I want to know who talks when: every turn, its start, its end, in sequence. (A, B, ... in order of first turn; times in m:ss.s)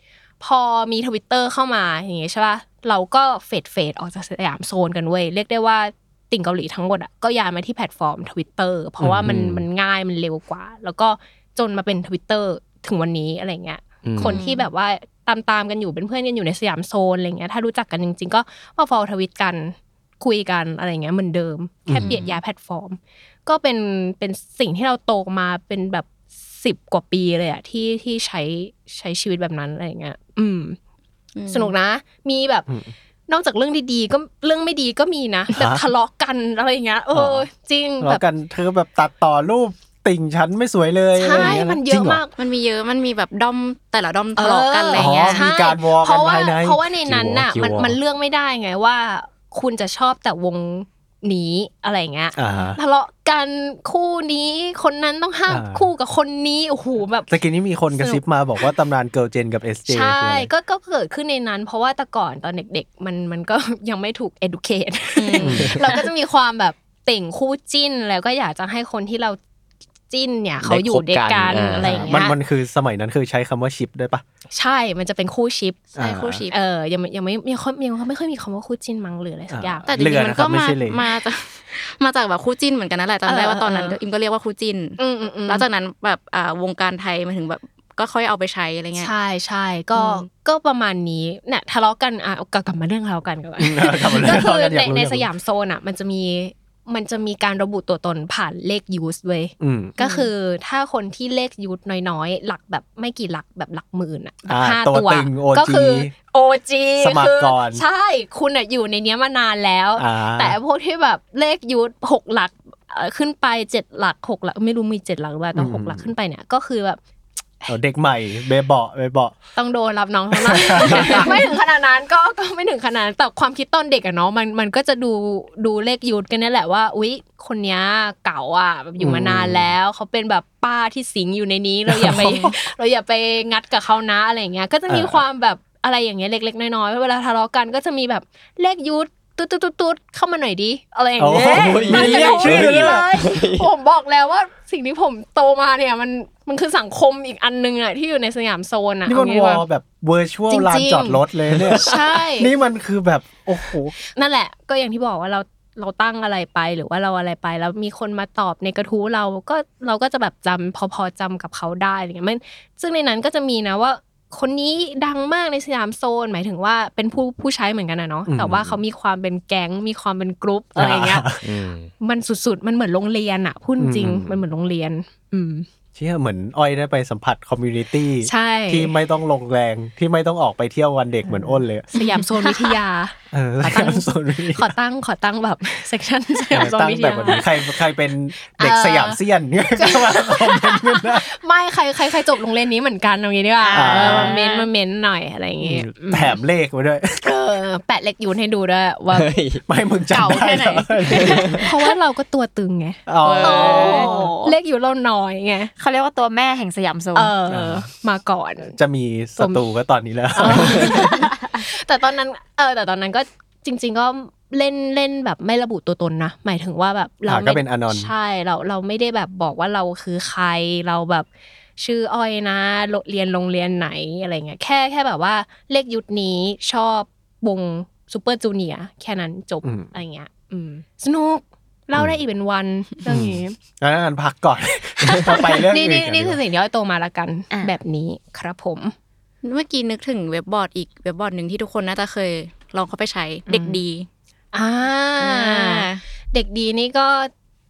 0:00.4-0:30.8 A
0:09.0-0:09.5 B
0:09.3-0:09.6 C
0:14.0-0:14.4 C
0:14.3-0:14.6 D
0:21.9-0:22.2 B
0:31.4-0:31.7 D
0:31.5-0:32.7 A
0:32.7-0:32.9 B
0:33.3-0:38.2 A
0:35.5-0:35.8 B
0:37.1-0:37.5 B
0:38.0-0:42.2 B
0:41.2-0:42.3 A
0:41.3-0:41.6 D
0:42.4-0:45.5 D
0:44.4-0:57.3 A
0:44.9-0:47.5 B
0:47.5-0:48.0 C
0:52.4-0:52.8 B
0:55.5-0:55.9 B
0:57.3-1:00.5 B
0:57.9-0:58.2 A
0:59.9-1:09.4 A
1:05.2-1:05.8 D
1:05.4-1:05.8 B
1:10.1-1:12.3 A
1:10.6-1:12.2 C
1:11.8-1:14.2 B
1:14.5-1:15.9 A
1:16.0-1:16.4 B
1:16.0-1:16.6 D
1:16.5-1:19.9 A
1:19.5-1:21.0 B
1:19.9-1:29.1 D
1:23.3-1:24.0 A
1:25.0-1:25.6 A
1:29.0-1:57.0 A
1:30.0-1:30.2 D
1:33.6-1:35.3 B
1:39.6-1:40.0 B
1:44.5-1:46.1 B
1:47.0-1:47.8 B
1:50.0-1:50.6 B
1:55.5-1:56.1 B
1:57.7-1:59.4 B
1:59.6-2:29.6 A
2:00.3-2:01.5 B
2:09.0-2:09.7 B
2:11.9-2:12.5 B
2:14.9-2:15.2 B
2:21.2-2:23.0 B
2:21.5-2:23.7 C
2:29.1-2:34.0 B
2:30.5-2:32.5 A
2:31.5-2:32.0 C
2:34.1-2:51.3 A
2:48.3-2:48.8 B
2:50.8-2:51.4 B
2:51.4-2:51.9 C
2:52.0-2:55.7 A
2:53.8-2:54.4 B
2:56.0-3:01.9 B
2:58.2-2:58.9 A
3:01.3-3:07.7 A
3:03.3-3:04.7 B
3:06.5-3:11.3 B
3:08.5-3:09.2 A
3:09.8-3:16.4 A
3:13.6-3:14.7 E
3:13.7-3:14.4 B
3:15.6-3:17.2 B
3:17.2-3:19.3 A
3:19.1-3:19.6 C
3:19.7-3:21.7 B
3:20.1-3:21.7 E
3:21.1-3:21.6 C
3:21.6-3:25.7 A
3:23.1-3:24.3 B
3:23.2-3:24.0 D
3:23.4-3:24.6 E
3:25.8-3:27.3 E
3:27.2-3:28.8 A
3:27.5-3:27.8 B
3:28.8-3:31.2 B
3:29.4-3:29.6 A
3:30.4-3:53.6 A
3:31.1-3:31.6 E
3:37.3-3:38.1 B
3:49.6-3:49.9 B
3:53.1-3:56.4 B
3:55.0-3:59.0 A
3:59.4-4:04.1 D
4:03.5-4:03.8 A
4:04.5-4:07.3 A
4:05.2-4:06.0 D